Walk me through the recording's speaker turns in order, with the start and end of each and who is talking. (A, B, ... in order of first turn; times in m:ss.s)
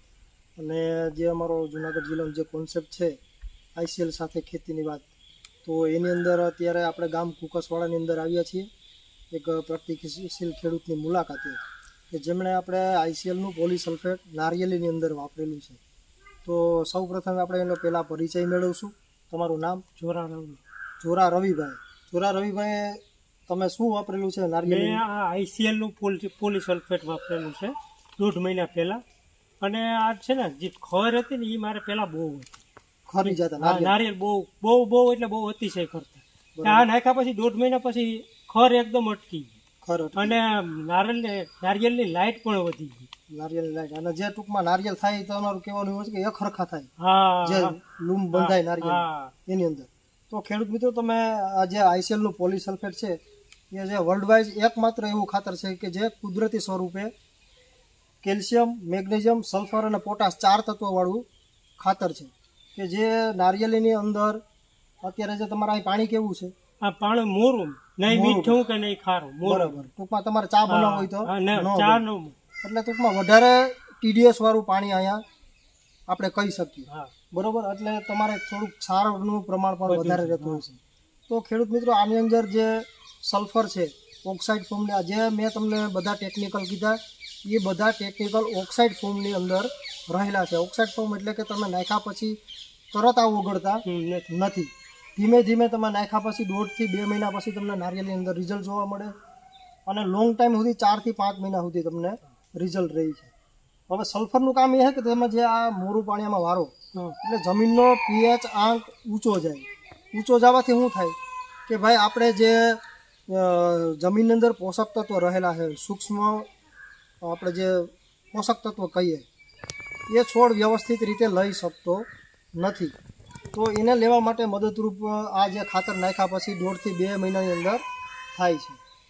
0:00.6-0:03.2 A
0:03.8-0:05.1 A
0:05.6-0:08.7 A
0:09.3-0:15.8 A
0:16.4-0:19.8 A
0:20.0-0:20.6 B
0:21.0-0:25.0 A
0:24.6-0:29.0 B
0:29.6-0:32.6 B
0:33.1-0:33.9 A
0:33.2-0:39.6 B
0:36.5-0:36.9 A
0:39.8-0:40.4 A
0:40.2-0:43.1 B
0:43.3-0:46.9 A
0:47.0-0:47.8 B
0:47.4-0:53.2 A
0:48.3-0:49.3 B
0:53.7-0:57.1 A
0:58.2-1:01.2 A
1:01.8-1:04.4 A
1:05.0-1:06.5 A
1:06.8-1:09.8 B
1:08.1-1:08.6 A
1:09.4-1:12.0 A
1:10.7-1:12.4 B
1:12.6-1:15.2 A
1:16.1-1:32.4 A
1:19.9-1:20.6 B
1:32.9-1:39.1 A
1:33.8-1:34.3 B
1:39.9-1:43.3 A
1:43.9-1:51.2 A
1:51.7-1:56.5 A
1:57.2-1:59.2 A
2:00.1-2:02.9 A
2:03.5-2:07.8 A
2:08.3-2:08.8 A